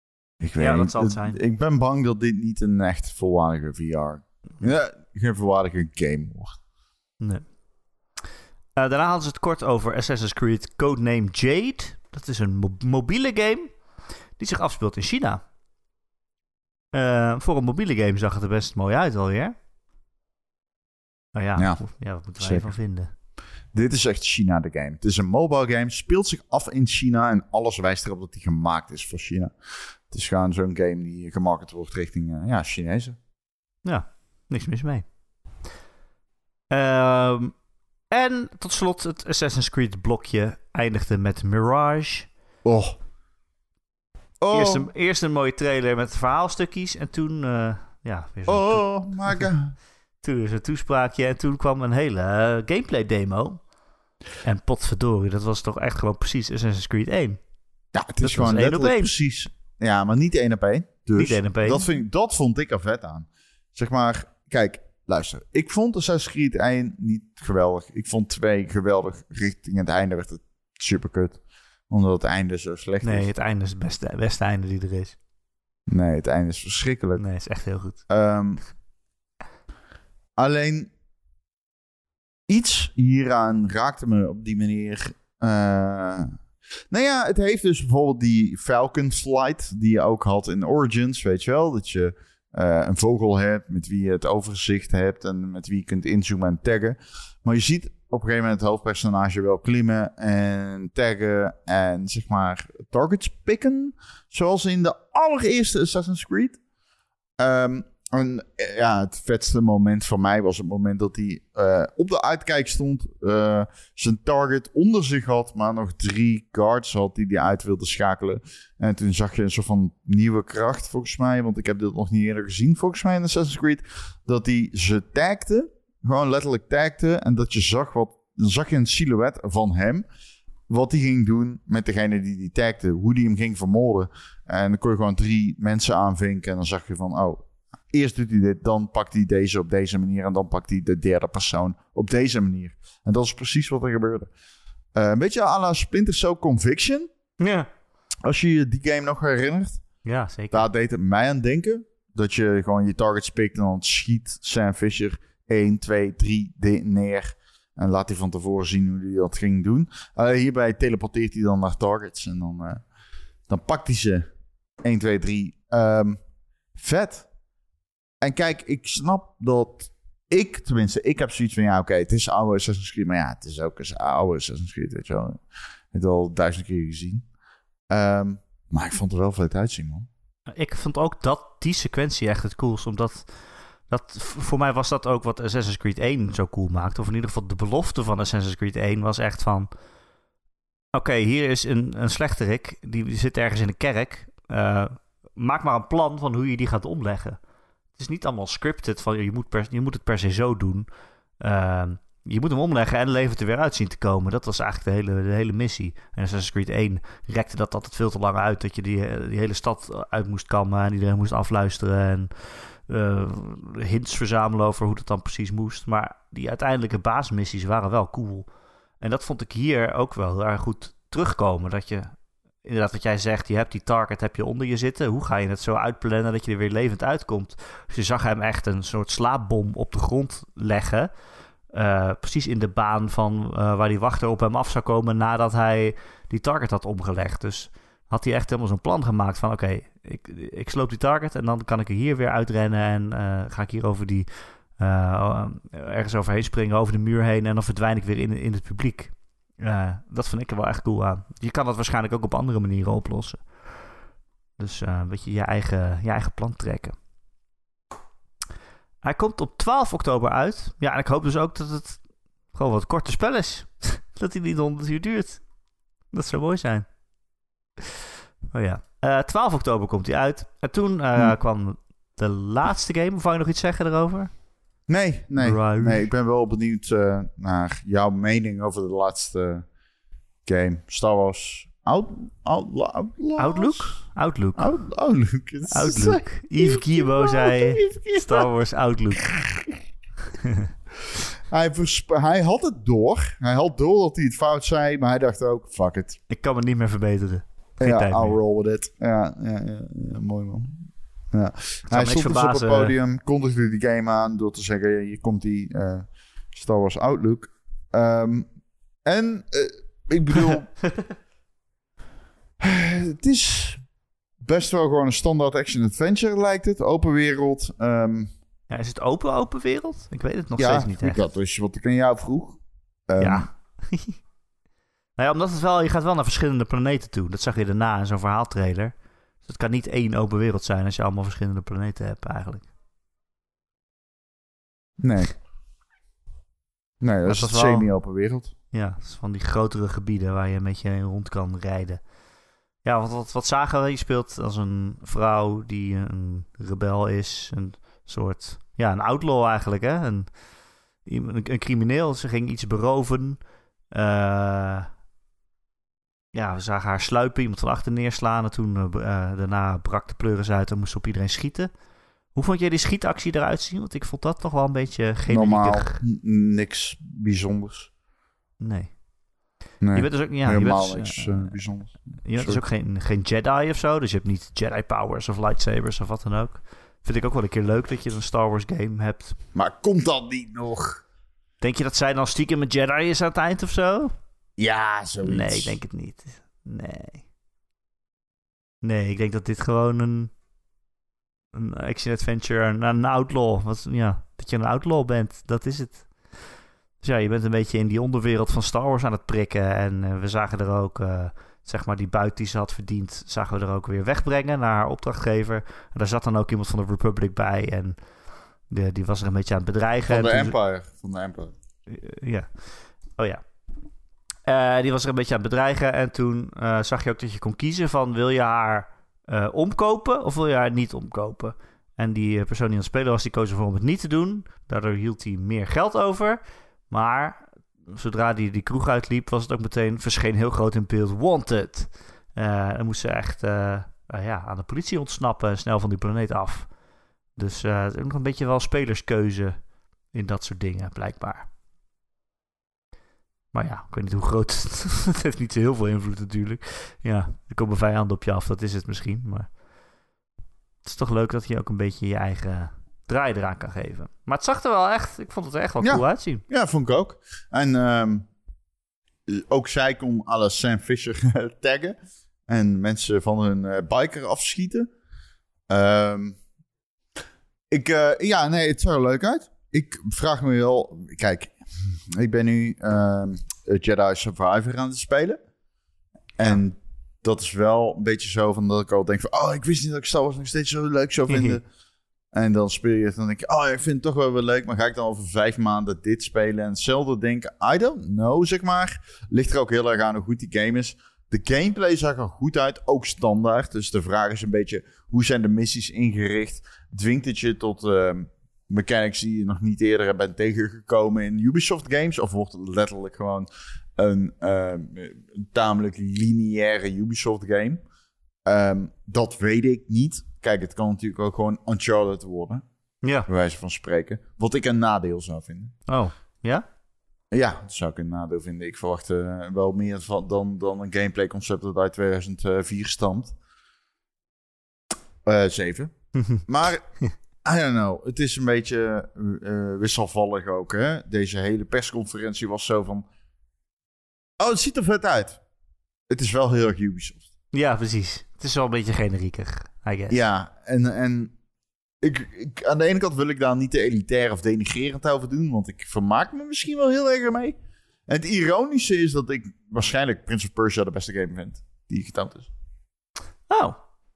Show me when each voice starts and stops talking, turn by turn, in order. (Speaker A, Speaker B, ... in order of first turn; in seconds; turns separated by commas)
Speaker A: 0.4-6.6, Speaker B: 0.6-1.4, Speaker B: 7.2-7.6, Speaker B: 8.8-15.4, Speaker B: 16.9-19.5, Speaker B: 21.3-23.1, Speaker A: 21.6-22.7, Speaker A: 23.7-29.6, Speaker A: 30.1-33.2, Speaker B: 33.8-35.1, Speaker B: 36.7-37.6, Speaker B: 38.1-42.3, Speaker A: 42.6-43.0, Speaker A: 44.4-44.9, Speaker B: 44.5-49.5, Speaker A: 48.5-49.8, Speaker B: 50.2-53.7, Speaker B: 54.4-57.4, Speaker A: 57.9-73.3, Speaker B: 58.2-59.1, Speaker B: 61.1-61.9, Speaker B: 73.0-75.2, Speaker A: 75.9-77.2, Speaker B: 77.2-78.0, Speaker A: 77.9-78.6, Speaker A: 80.3-80.9, Speaker A: 82.5-86.3, Speaker A: 86.9-106.6, Speaker A: 107.4-130.1, Speaker A: 130.7-144.3, Speaker A: 144.9-147.1, Speaker B: 147.4-147.7, Speaker A: 148.2-162.9, Speaker B: 150.0-150.7, Speaker A: 163.5-167.3, Speaker A: 168.2-177.3, Speaker A: 177.9-180.1, Speaker B: 180.5-189.7, Speaker B: 190.9-197.4, Speaker B: 197.9-218.5, Speaker B: 219.0-231.1, Speaker B: 231.7-253.9, Speaker B: 254.6-256.9, Speaker B: 259.0-265.5, Speaker B: 266.1-266.9, Speaker B: 268.5-274.4, Speaker A: 274.9-279.7, Speaker B: 275.4-276.1, Speaker A: 280.4-288.5, Speaker B: 283.4-284.7, Speaker B: 285.7-289.4, Speaker A: 289.2-289.8, Speaker A: 291.5-296.2, Speaker B: 296.3-298.4, Speaker A: 297.8-308.5, Speaker B: 301.9-302.9, Speaker A: 309.0-310.7, Speaker A: 312.6-313.8, Speaker A: 314.4-318.3, Speaker B: 318.7-321.2, Speaker A: 320.6-323.5, Speaker B: 323.2-324.2, Speaker B: 325.1-332.7, Speaker A: 335.0-335.4, Speaker A: 337.0-338.5, Speaker B: 337.2-337.9, Speaker B: 338.7-342.1, Speaker B: 342.8-350.4, Speaker B: 351.0-354.9, Speaker B: 356.3-361.7, Speaker B: 362.3-366.0, Speaker A: 365.3-367.9, Speaker B: 368.6-369.0, Speaker A: 369.8-372.6, Speaker B: 369.9-379.4, Speaker A: 379.5-381.0, Speaker B: 381.6-384.1, Speaker A: 384.6-385.8, Speaker B: 385.2-387.3, Speaker B: 388.8-390.3, Speaker B: 391.5-410.6, Speaker A: 410.1-411.5, Speaker B: 411.9-413.4, Speaker B: 414.4-436.8, Speaker B: 437.3-441.5, Speaker B: 443.5-449.6, Speaker B: 450.8-456.4, Speaker A: 455.8-458.3, Speaker A: 459.3-464.9, Speaker A: 465.7-466.4, Speaker A: 467.7-475.4, Speaker A: 476.4-481.6, Speaker B: 481.3-481.6, Speaker A: 482.3-507.8, Speaker A: 508.4-512.6, Speaker B: 513.0-513.3, Speaker A: 513.2-515.8, Speaker B: 515.9-516.6, Speaker A: 517.3-523.4, Speaker A: 525.2-533.1, Speaker B: 526.1-526.4, Speaker A: 534.4-535.4, Speaker A: 536.1-537.3, Speaker B: 537.5-540.2, Speaker A: 540.1-541.3, Speaker A: 542.0-552.5, Speaker B: 553.5-553.8